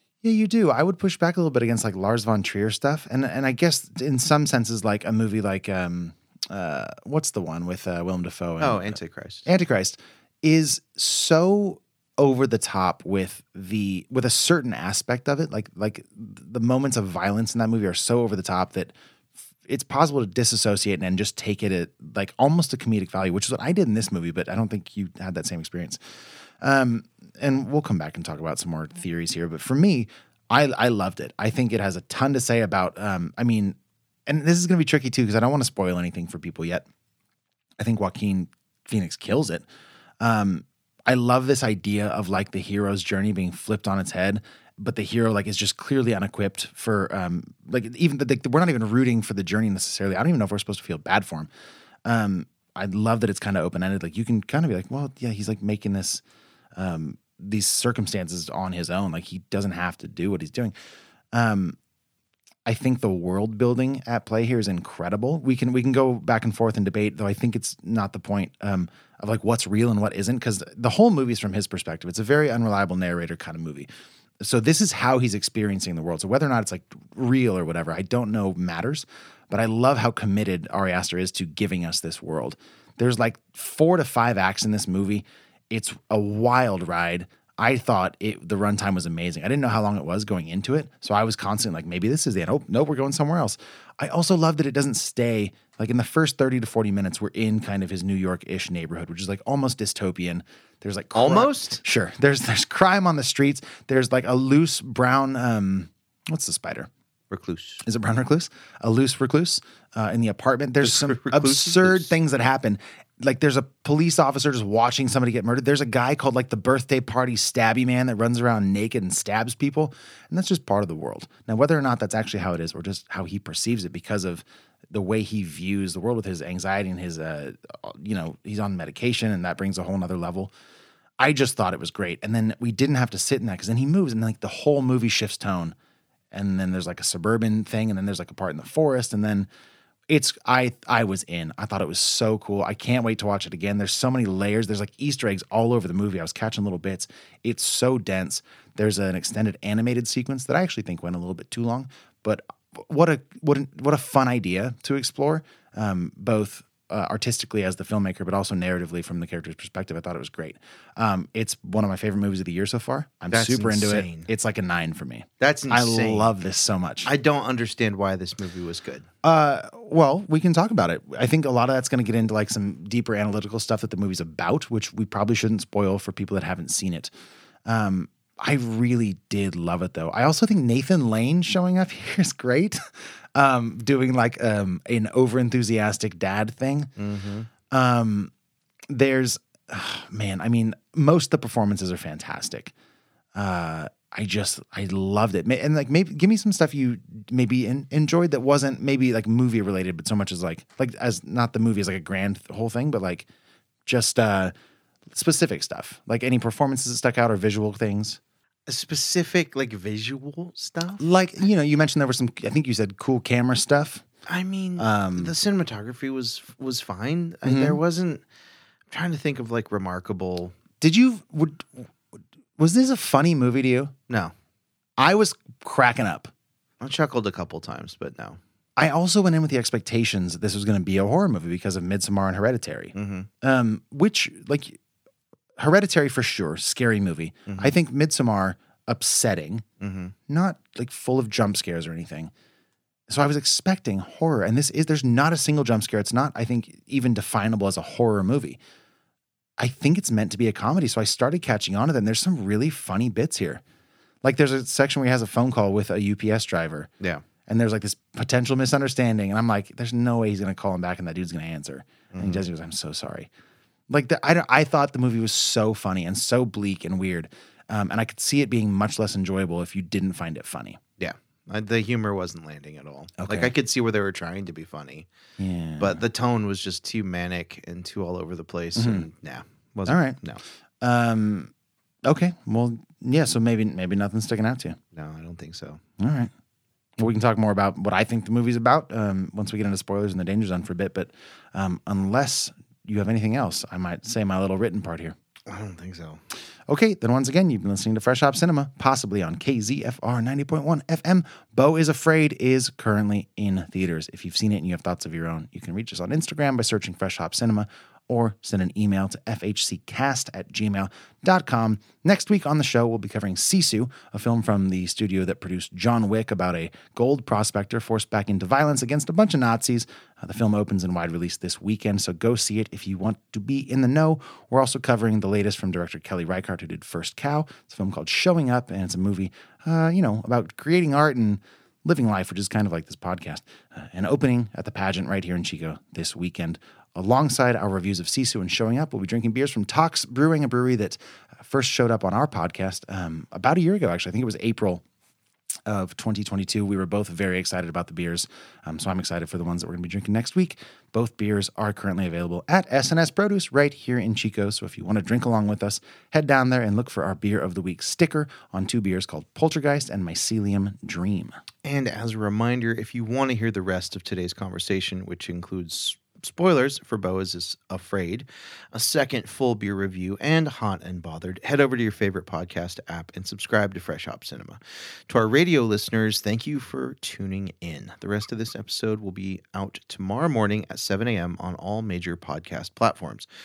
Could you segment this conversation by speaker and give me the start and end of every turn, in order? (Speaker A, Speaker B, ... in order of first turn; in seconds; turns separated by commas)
Speaker A: 0.2-18.9, Speaker B: 8.6-9.5, Speaker A: 19.7-26.0, Speaker A: 26.6-33.8, Speaker A: 34.3-36.9, Speaker A: 37.8-39.6, Speaker A: 40.2-51.5, Speaker A: 52.0-56.2, Speaker A: 56.8-60.7, Speaker A: 61.3-61.8, Speaker A: 62.6-73.9, Speaker A: 74.4-106.9, Speaker B: 101.1-101.8, Speaker B: 107.3-107.8, Speaker A: 107.8-130.5, Speaker B: 110.8-112.1, Speaker A: 131.2-135.7, Speaker A: 136.3-139.5, Speaker A: 140.1-167.1, Speaker B: 163.3-164.3, Speaker B: 165.4-166.3, Speaker B: 167.0-169.1, Speaker A: 169.2-177.1, Speaker A: 177.7-182.8, Speaker A: 183.3-186.9, Speaker B: 187.0-187.5, Speaker A: 187.7-188.3, Speaker A: 188.9-192.7, Speaker A: 193.3-203.2, Speaker A: 203.8-204.5, Speaker A: 205.1-208.2, Speaker B: 208.7-211.0, Speaker A: 211.0-214.0, Speaker B: 214.2-218.2, Speaker A: 214.8-215.3, Speaker A: 217.4-217.8, Speaker B: 218.9-220.5, Speaker A: 220.8-221.8, Speaker A: 222.6-223.9, Speaker B: 224.1-224.3, Speaker A: 225.0-226.3, Speaker B: 226.8-228.4, Speaker A: 228.8-234.8, Speaker B: 232.9-233.3, Speaker A: 235.6-239.6, Speaker B: 237.5-237.8, Speaker B: 239.8-240.1, Speaker A: 240.3-242.3, Speaker A: 243.1-248.6, Speaker A: 249.6-253.6, Speaker A: 254.2-256.9, Speaker A: 257.5-263.3, Speaker B: 262.1-262.4, Speaker A: 263.9-270.8, Speaker B: 271.0-275.1, Speaker A: 273.2-273.5, Speaker A: 275.4-276.0, Speaker B: 275.8-280.4, Speaker A: 278.8-279.1, Speaker A: 279.9-280.2, Speaker A: 280.8-281.5, Speaker A: 282.0-284.8, Speaker B: 284.9-285.8, Speaker A: 286.0-286.3, Speaker A: 287.0-295.1, Speaker B: 295.5-296.2, Speaker A: 296.7-344.8, Speaker A: 345.7-361.3, Speaker B: 361.6-383.3